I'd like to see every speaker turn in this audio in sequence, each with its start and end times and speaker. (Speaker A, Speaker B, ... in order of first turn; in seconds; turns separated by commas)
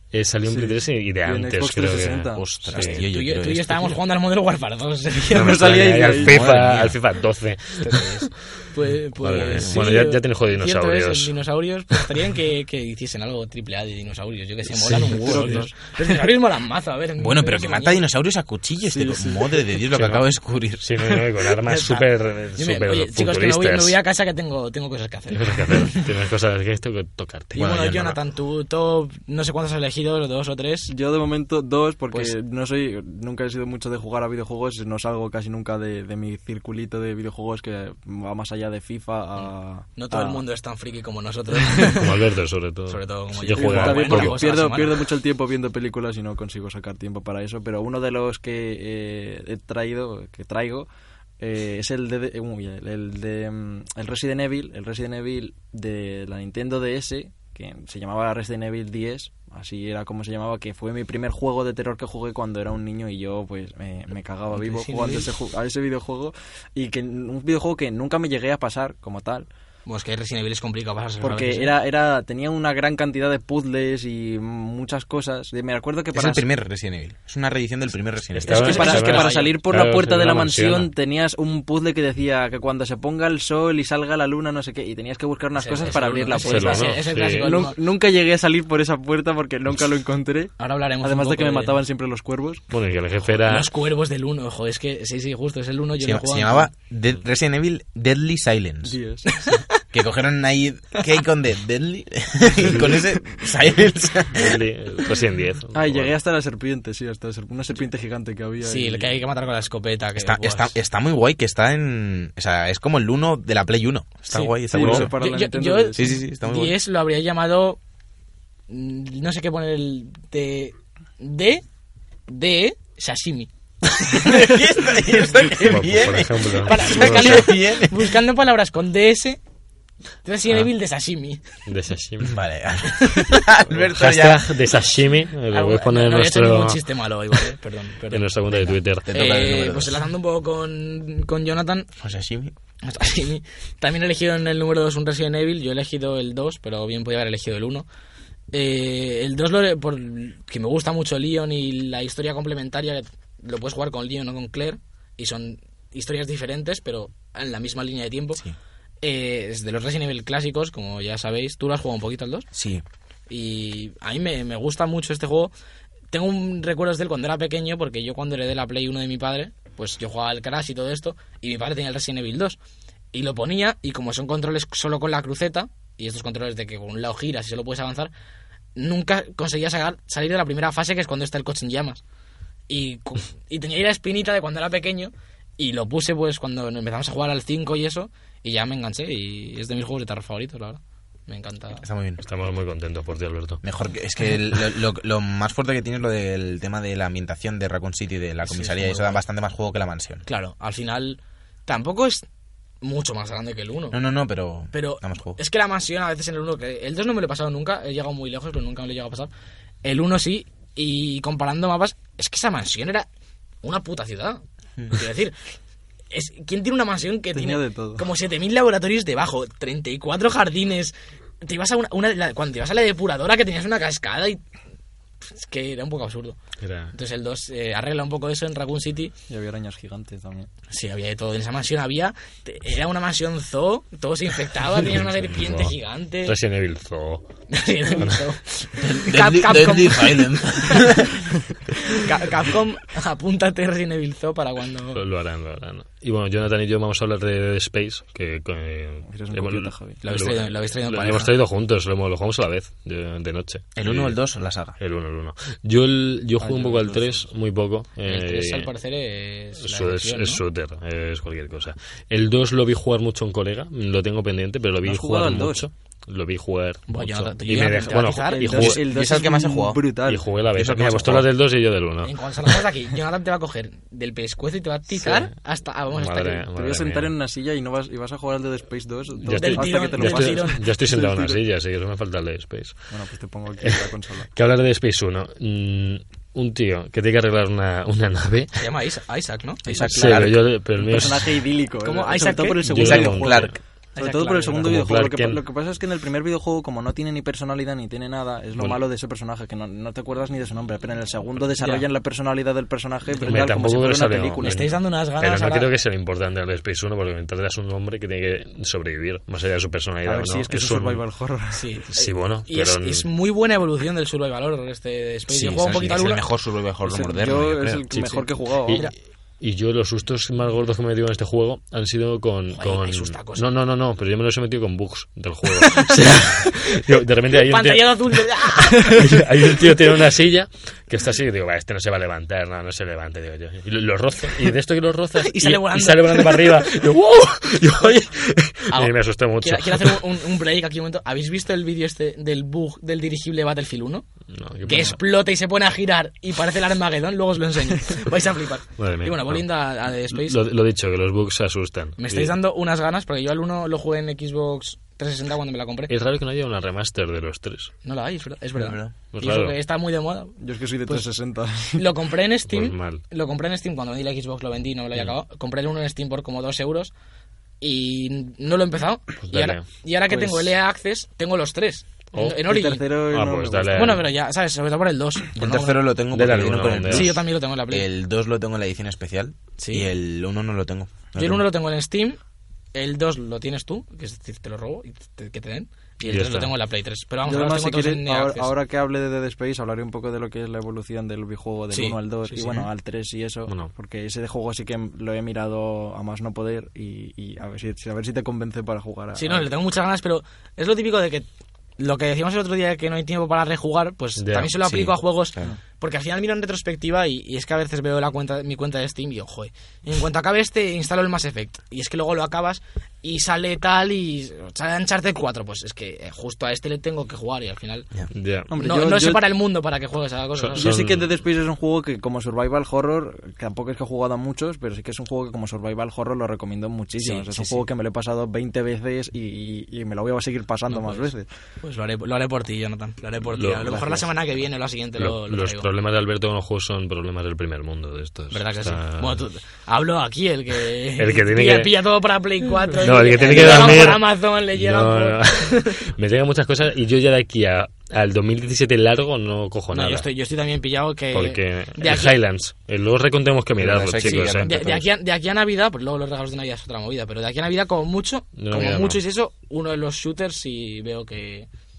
Speaker A: 0.1-3.0, Speaker B: 0.5-2.5, Speaker C: 2.3-4.0, Speaker D: 2.7-5.8, Speaker A: 5.3-8.3, Speaker B: 5.3-6.6, Speaker C: 6.2-7.0, Speaker D: 7.8-18.0, Speaker A: 9.2-11.3, Speaker C: 9.3-9.9, Speaker A: 14.8-15.6, Speaker C: 14.9-15.3, Speaker B: 15.2-15.7, Speaker C: 17.2-21.0, Speaker B: 18.9-19.6, Speaker A: 19.9-20.3, Speaker A: 20.8-24.0, Speaker D: 21.6-22.0, Speaker D: 22.6-26.1, Speaker A: 25.3-27.7, Speaker C: 27.5-28.2, Speaker D: 27.6-30.9, Speaker B: 30.9-40.4, Speaker D: 39.4-42.2, Speaker A: 42.0-44.4, Speaker D: 42.9-45.0, Speaker B: 43.5-50.9, Speaker B: 51.4-69.5, Speaker D: 64.5-65.3, Speaker D: 69.8-71.7, Speaker B: 71.2-76.4, Speaker C: 76.1-78.9, Speaker A: 78.3-80.9, Speaker B: 78.5-92.6, Speaker D: 78.5-79.5, Speaker D: 85.6-87.8, Speaker A: 86.4-87.5, Speaker D: 90.6-91.8, Speaker A: 92.7-93.7, Speaker D: 93.4-96.7, Speaker C: 96.0-99.0, Speaker B: 98.8-99.4, Speaker D: 99.3-99.8, Speaker C: 99.9-104.6, Speaker A: 104.3-106.1, Speaker B: 105.7-109.2, Speaker D: 108.6-110.7, Speaker C: 110.2-115.1, Speaker D: 114.3-117.8, Speaker B: 114.7-116.2, Speaker C: 115.9-116.8, Speaker D: 118.7-121.6, Speaker D: 122.3-123.5, Speaker C: 124.0-128.1, Speaker A: 125.6-127.5, Speaker D: 126.6-129.4, Speaker D: 130.2-131.4, Speaker A: 131.7-132.3, Speaker C: 132.2-134.5, Speaker A: 133.7-136.8, Speaker D: 135.5-138.3, Speaker A: 138.1-139.1, Speaker C: 138.6-140.0, Speaker D: 139.1-141.9, Speaker C: 142.0-142.5, Speaker D: 142.8-147.8, Speaker D: 148.5-158.4, Speaker D: 159.0-162.5, Speaker C: 162.5-162.8, Speaker D: 163.3-165.5, Speaker D: 166.1-172.6, Speaker D: 173.1-178.1, Speaker D: 178.8-182.0, Speaker D: 182.7-191.8, Speaker C: 191.8-192.2, Speaker A: 192.2-193.6, Speaker C: 193.6-200.2, Speaker D: 198.4-199.2, Speaker D: 200.2-202.2, Speaker D: 202.8-204.0, Speaker C: 203.9-205.4, Speaker D: 204.7-209.3, Speaker D: 209.8-213.1, Speaker D: 213.6-215.3, Speaker D: 216.1-224.4, Speaker B: 217.3-218.1, Speaker D: 225.2-226.4, Speaker A: 226.6-226.9, Speaker D: 226.9-229.1, Speaker B: 229.3-230.5, Speaker D: 230.7-236.3, Speaker A: 235.2-235.7, Speaker A: 236.2-237.2, Speaker D: 237.5-240.9, Speaker A: 238.0-238.2, Speaker C: 238.8-241.3, Speaker D: 241.9-245.0, Speaker A: 244.9-254.2, Speaker B: 249.1-250.0, Speaker D: 250.0-251.3, Speaker C: 253.8-254.8, Speaker A: 254.8-258.7, Speaker B: 256.4-257.3, Speaker D: 258.0-260.4, Speaker A: 259.6-268.8, Speaker B: 264.8-265.7, Speaker D: 266.9-268.7, Speaker B: 268.4-270.3, Speaker C: 268.7-269.8, Speaker A: 270.1-272.6, Speaker C: 270.5-271.3, Speaker D: 272.0-276.4, Speaker A: 275.0-275.3, Speaker A: 275.9-277.1, Speaker B: 276.5-281.4, Speaker A: 279.2-282.8, Speaker D: 279.3-280.6, Speaker B: 282.9-284.3, Speaker A: 283.6-288.6, Speaker D: 288.6-290.1, Speaker C: 289.7-290.4, Speaker B: 289.7-304.6, Speaker A: 289.7-291.4, Speaker D: 291.8-292.6, Speaker A: 292.7-293.6, Speaker C: 292.8-293.5, Speaker D: 293.9-294.6, Speaker A: 294.6-295.4, Speaker D: 301.6-301.8, Speaker A: 303.2-311.0, Speaker D: 304.4-305.7, Speaker B: 310.0-311.7, Speaker D: 311.5-316.2, Speaker A: 311.9-313.1, Speaker C: 315.3-317.8, Speaker B: 316.8-318.9, Speaker A: 318.6-340.0, Speaker D: 322.5-323.4, Speaker D: 325.6-325.9, Speaker D: 327.3-329.1, Speaker D: 335.2-336.8, Speaker D: 338.7-344.1, Speaker A: 344.3-345.0, Speaker D: 344.6-350.4, Speaker A: 348.8-352.3, Speaker D: 352.0-355.9, Speaker A: 355.9-357.7, Speaker D: 357.8-361.1, Speaker C: 358.6-358.9, Speaker A: 359.1-359.6, Speaker B: 360.4-361.9, Speaker D: 361.7-366.9, Speaker A: 362.5-363.0, Speaker D: 367.6-372.8, Speaker A: 369.2-369.6, Speaker B: 370.1-370.5, Speaker A: 372.1-372.4, Speaker B: 372.4-374.1, Speaker A: 373.1-374.1, Speaker D: 373.7-375.8, Speaker C: 375.3-381.4, Speaker A: 376.1-377.2, Speaker D: 376.9-377.9, Speaker D: 379.6-379.9, Speaker D: 381.1-382.2, Speaker D: 382.7-388.5, Speaker A: 386.1-386.5, Speaker B: 387.2-399.5, Speaker D: 391.7-392.6, Speaker D: 399.1-401.2, Speaker D: 401.8-417.9, Speaker A: 404.2-404.6, Speaker C: 404.6-405.5, Speaker A: 418.1-418.5, Speaker B: 418.5-419.3, Speaker D: 418.6-420.7, Speaker A: 420.4-421.1, Speaker B: 420.5-431.3, Speaker D: 427.0-427.6, Speaker D: 430.7-431.1, Speaker D: 431.6-435.7, Speaker A: 433.3-433.9, Speaker B: 433.7-434.0, Speaker A: 435.0-439.2, Speaker D: 438.3-445.9, Speaker A: 441.0-441.8, Speaker A: 442.8-450.1, Speaker B: 443.3-443.6, Speaker D: 449.7-452.1, Speaker A: 451.1-454.5, Speaker C: 453.6-454.9, Speaker D: 454.0-461.5, Speaker A: 458.4-459.0